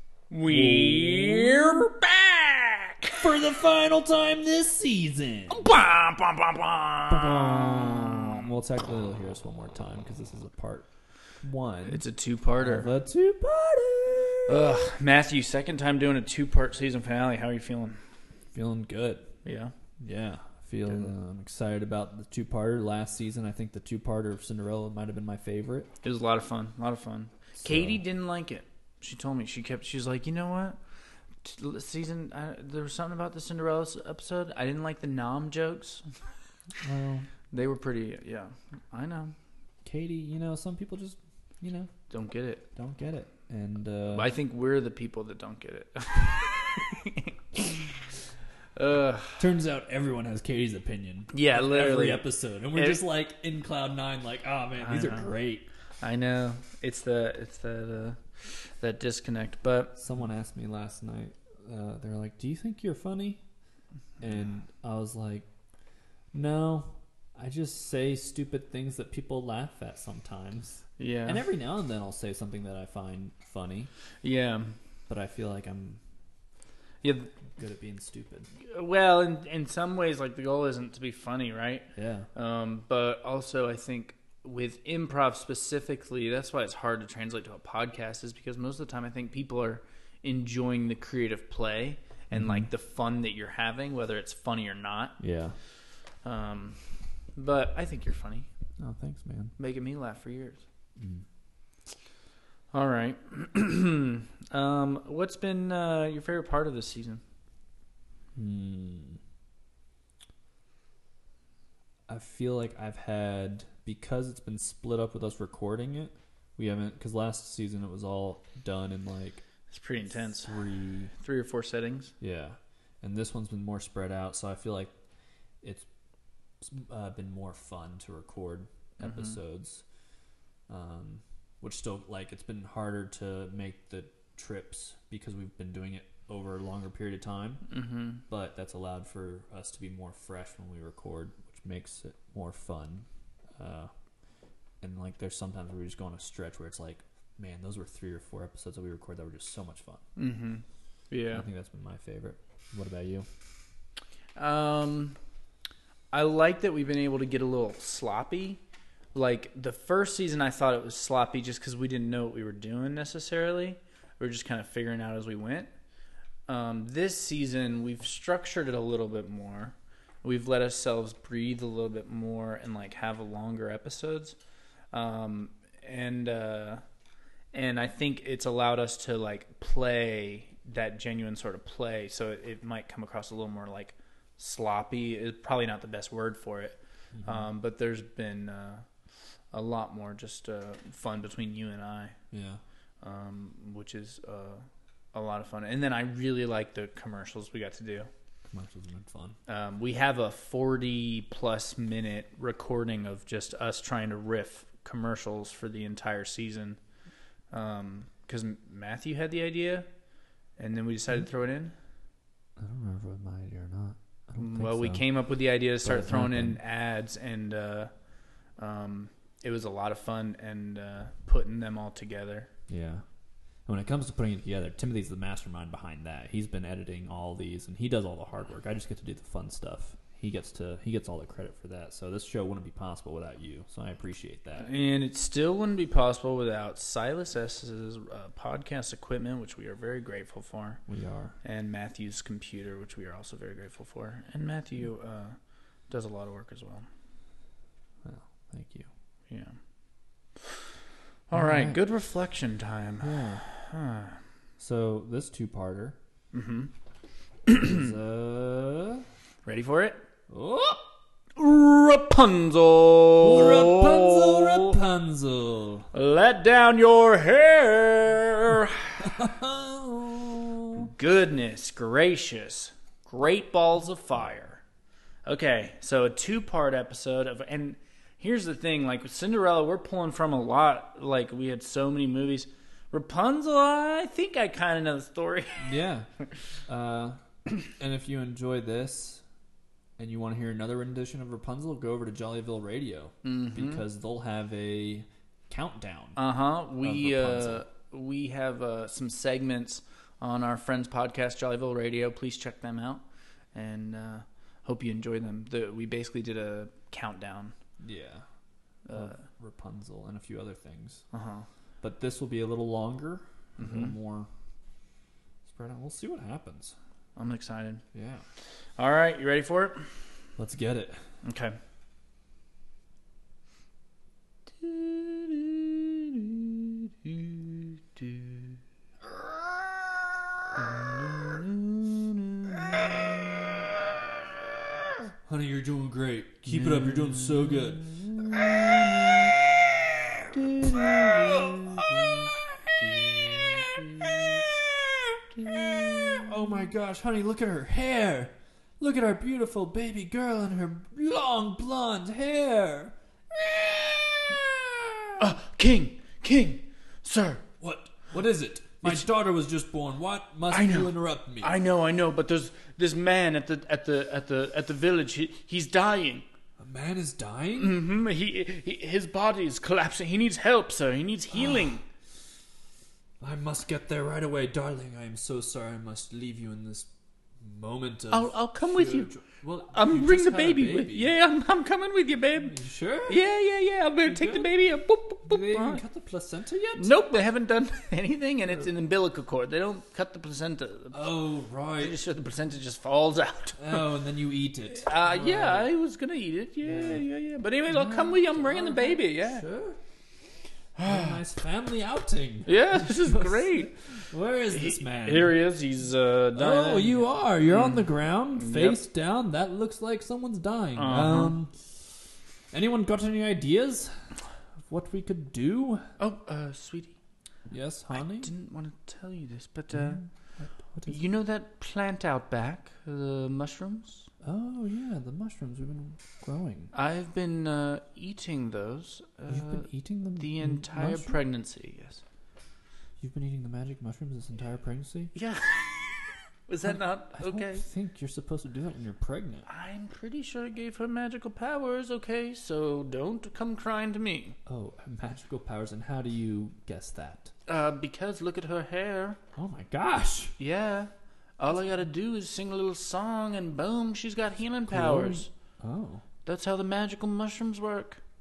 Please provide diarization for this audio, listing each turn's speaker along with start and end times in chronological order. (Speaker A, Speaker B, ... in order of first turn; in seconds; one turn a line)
Speaker A: 0.3-3.2
Speaker B: 0.4-1.9
Speaker B: 3.2-5.6
Speaker A: 5.5-8.4
Speaker B: 7.1-10.9
Speaker B: 11.4-12.0
Speaker A: 11.9-12.9
Speaker B: 12.6-14.9
Speaker A: 14.5-18.0
Speaker B: 18.5-19.3
Speaker A: 19.4-19.7
Speaker B: 20.0-25.9
Speaker A: 26.0-30.8
Speaker B: 27.6-28.0
Speaker A: 31.4-36.0
Speaker B: 36.8-37.3
Speaker A: 37.5-39.3
Speaker B: 39.8-41.9
Speaker A: 42.1-42.6
Speaker B: 42.8-44.3
Speaker A: 44.1-48.0
Speaker A: 48.8-49.4
Speaker B: 49.4-55.7
Speaker A: 51.3-53.0
Speaker A: 54.8-55.3
Speaker A: 56.0-59.9
Speaker B: 60.0-63.4
Speaker B: 64.2-65.5
Speaker B: 66.3-73.9
Speaker A: 71.0-71.4
Speaker A: 74.2-74.7
Speaker B: 75.1-76.0
Speaker A: 77.0-77.3
Speaker B: 77.5-78.5
Speaker A: 78.7-95.2
Speaker B: 82.0-82.3
Speaker B: 92.3-92.7
Speaker B: 95.2-95.5
Speaker A: 96.2-96.8
Speaker A: 97.3-98.5
Speaker B: 98.8-99.5
Speaker A: 99.6-100.6
Speaker B: 101.0-101.2
Speaker A: 102.7-107.2
Speaker B: 108.3-109.2
Speaker B: 112.1-119.4
Speaker A: 119.7-120.5
Speaker B: 120.0-121.1
Speaker A: 121.2-122.1
Speaker B: 122.2-124.9
Speaker B: 125.6-125.9
Speaker B: 126.6-129.8
Speaker A: 129.0-129.4
Speaker B: 130.7-137.7
Speaker A: 137.7-138.2
Speaker B: 138.3-143.1
Speaker B: 143.6-143.9
Speaker B: 144.8-150.0
Speaker A: 150.2-151.4
Speaker B: 151.3-153.2
Speaker A: 154.3-155.2
Speaker A: 156.1-158.6
Speaker A: 159.1-165.7
Speaker A: 166.5-174.3
Speaker A: 174.9-176.8
Speaker A: 177.5-188.8
Speaker B: 187.1-187.5
Speaker A: 189.5-192.1
Speaker B: 192.3-192.6
Speaker A: 193.0-198.1
Speaker B: 198.5-199.3
Speaker A: 199.5-206.8
Speaker A: 207.5-209.8
Speaker A: 210.6-211.7
Speaker B: 212.6-215.1
Speaker A: 214.4-217.9
Speaker B: 215.8-216.6
Speaker A: 218.6-222.5
Speaker B: 222.7-223.0
Speaker B: 223.7-234.7
Speaker A: 234.6-240.8
Speaker B: 240.9-241.3
Speaker A: 241.4-245.3
Speaker A: 245.9-246.8
Speaker B: 248.0-248.9
Speaker A: 249.3-249.5
Speaker A: 251.3-254.2
Speaker B: 251.3-251.8
Speaker B: 253.0-253.4
Speaker B: 254.6-256.0
Speaker A: 256.3-256.7
Speaker A: 257.5-257.9
Speaker B: 257.5-259.0
Speaker A: 259.4-260.0
Speaker B: 260.3-260.9
Speaker A: 261.4-264.8
Speaker B: 263.2-265.9
Speaker A: 265.9-268.9
Speaker B: 269.0-270.9
Speaker A: 270.8-274.6
Speaker A: 275.2-285.6
Speaker B: 285.6-286.1
Speaker B: 286.7-289.2
Speaker B: 290.0-296.2
Speaker A: 293.2-293.8
Speaker A: 296.2-303.0
Speaker B: 296.8-297.6
Speaker A: 303.5-307.5
Speaker B: 307.8-308.2
Speaker A: 308.9-309.1
Speaker B: 308.9-311.0
Speaker A: 311.1-311.4
Speaker B: 311.8-314.3
Speaker A: 313.6-313.9
Speaker B: 315.4-316.8
Speaker A: 317.1-317.8
Speaker B: 317.9-318.2
Speaker A: 318.8-319.8
Speaker B: 320.4-321.0
Speaker A: 321.2-321.6
Speaker A: 324.6-328.5
Speaker A: 330.5-333.6
Speaker B: 335.2-344.3
Speaker A: 336.5-339.4
Speaker A: 340.3-344.4
Speaker A: 345.4-346.3
Speaker B: 345.4-355.3
Speaker A: 355.2-357.4
Speaker B: 357.6-361.6
Speaker A: 360.5-366.2
Speaker B: 366.6-367.8
Speaker A: 367.6-371.8
Speaker B: 371.3-371.7
Speaker B: 373.2-376.9
Speaker B: 377.4-381.1
Speaker A: 378.1-379.1
Speaker A: 379.7-382.5
Speaker B: 382.4-383.2
Speaker A: 383.1-385.8
Speaker B: 384.0-384.5
Speaker B: 385.2-386.9
Speaker A: 386.8-391.0
Speaker B: 390.9-391.9
Speaker A: 391.8-393.8
Speaker B: 393.6-395.7
Speaker A: 394.8-399.4
Speaker B: 396.6-397.0
Speaker B: 397.7-399.8
Speaker A: 400.8-401.2
Speaker B: 400.8-405.3
Speaker A: 402.4-403.7
Speaker A: 404.5-408.8
Speaker B: 406.3-411.5
Speaker A: 410.8-411.3
Speaker B: 412.5-413.9
Speaker B: 414.6-415.8
Speaker A: 416.0-416.9
Speaker B: 417.5-418.3
Speaker A: 417.9-420.0
Speaker B: 419.7-421.0
Speaker A: 420.9-424.1
Speaker B: 424.2-426.7
Speaker A: 426.7-432.0
Speaker B: 429.3-431.2
Speaker B: 433.0-435.1
Speaker A: 435.1-437.6
Speaker B: 436.6-439.5
Speaker A: 439.5-444.4
Speaker B: 444.4-447.3
Speaker A: 447.5-449.2
Speaker B: 449.4-450.3
Speaker A: 450.4-455.3
Speaker B: 454.7-456.0
Speaker A: 456.2-458.0